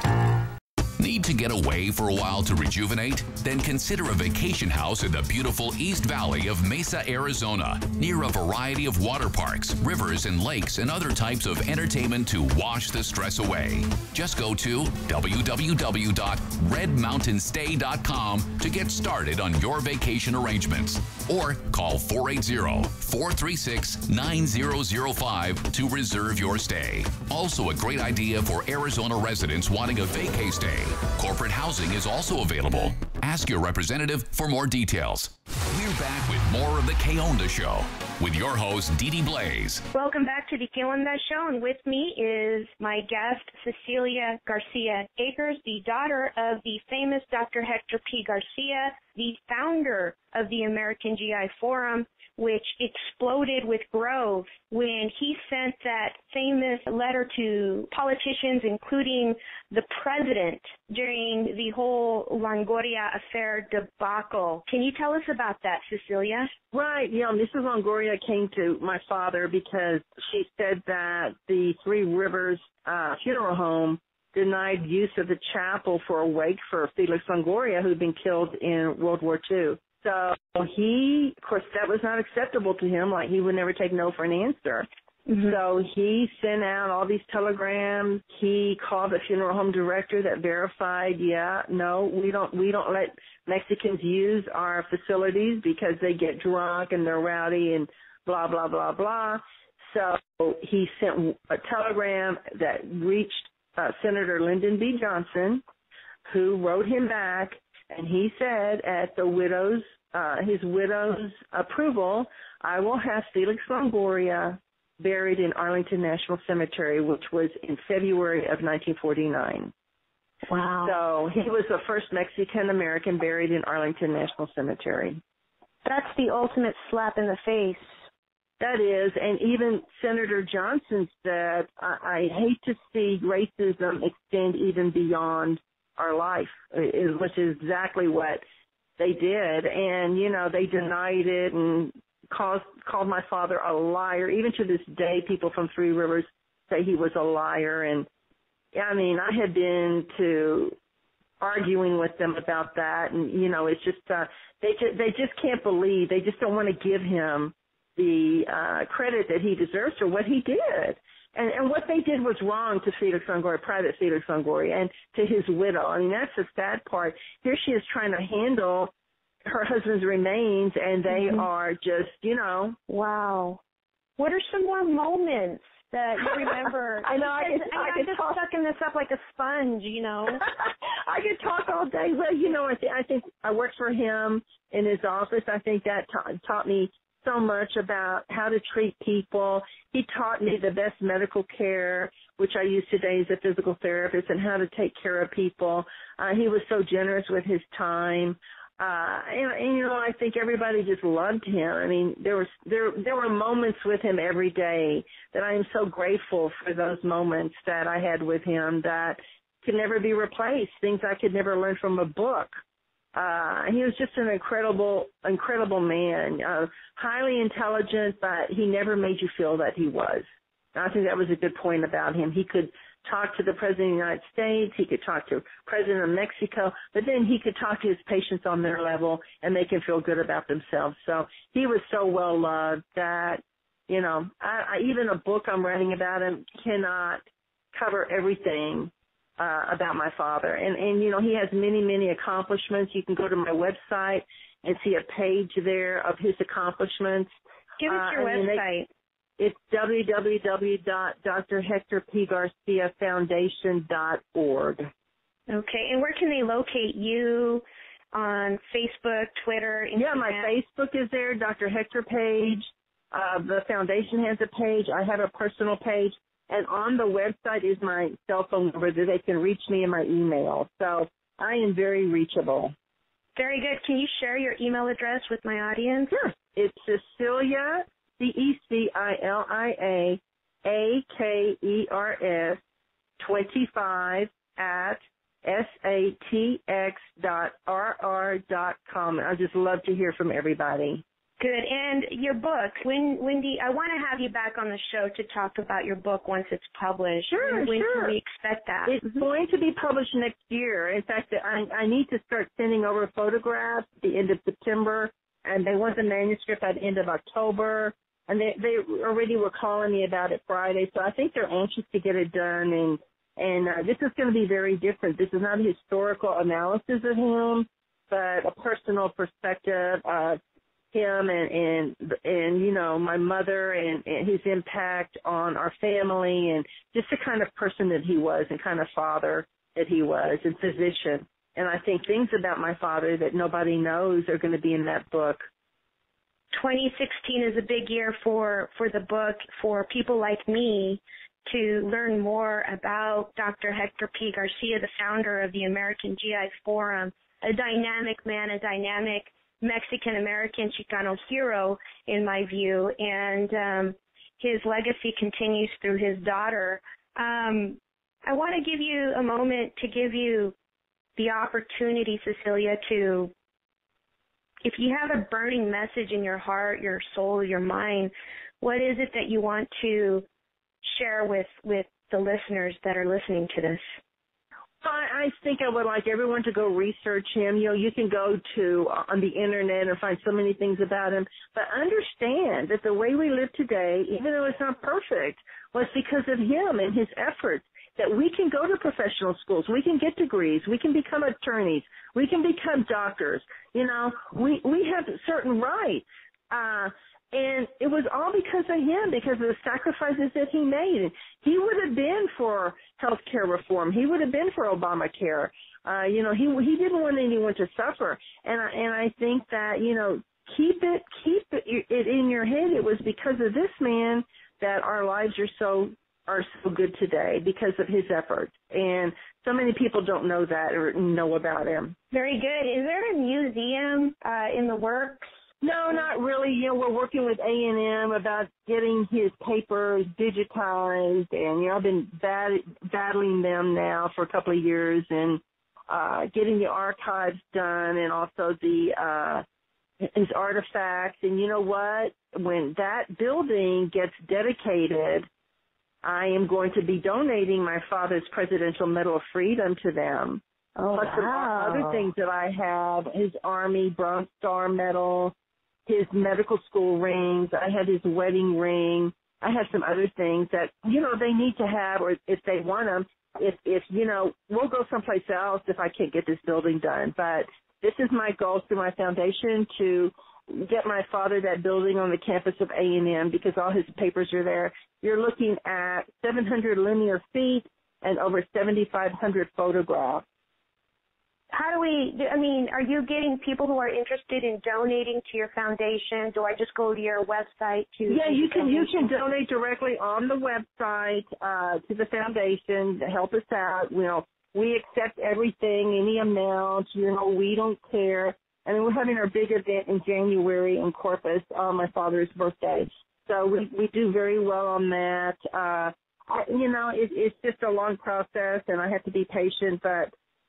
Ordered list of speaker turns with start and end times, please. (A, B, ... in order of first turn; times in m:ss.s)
0:01.0-0:39.8 A
0:39.9-1:06.5 B
1:06.7-1:24.8 C
1:25.3-1:25.6 B
1:25.4-1:45.6 C
1:46.2-1:59.7 C
2:00.4-2:01.0 B
2:00.8-2:05.2 C
2:05.8-2:07.8 B
2:08.6-2:18.4 C
2:19.0-2:28.1 C
2:28.7-2:30.7 C
2:31.4-2:48.9 C
2:49.4-2:52.8 C
2:51.1-2:51.5 B
2:52.9-2:53.6 B
2:54.2-3:00.4 B
2:57.0-2:58.4 C
3:00.4-3:32.6 C
3:33.1-3:57.2 C
3:57.7-4:07.3 C
4:07.8-4:08.9 B
4:07.8-4:08.6 C
4:09.4-4:14.9 C
4:15.5-4:20.5 B
4:20.0-4:32.7 C
4:33.4-4:36.1 B
4:36.1-4:42.6 C
4:43.2-4:51.0 C
4:51.4-4:59.2 B
4:57.3-4:58.2 C
4:58.8-5:20.4 C
5:20.9-5:35.4 C
5:36.5-6:00.5 B
6:01.2-6:03.3 B
6:04.6-6:10.2 B
6:10.8-6:13.8 B
6:14.8-7:01.9 C
7:02.1-7:05.3 B
7:05.6-7:19.4 C
7:20.0-7:25.3 C
7:26.0-7:30.4 C
7:30.8-7:32.1 B
7:30.9-7:35.3 C
7:35.9-8:00.2 C
8:01.5-8:09.0 B
8:08.1-8:30.1 C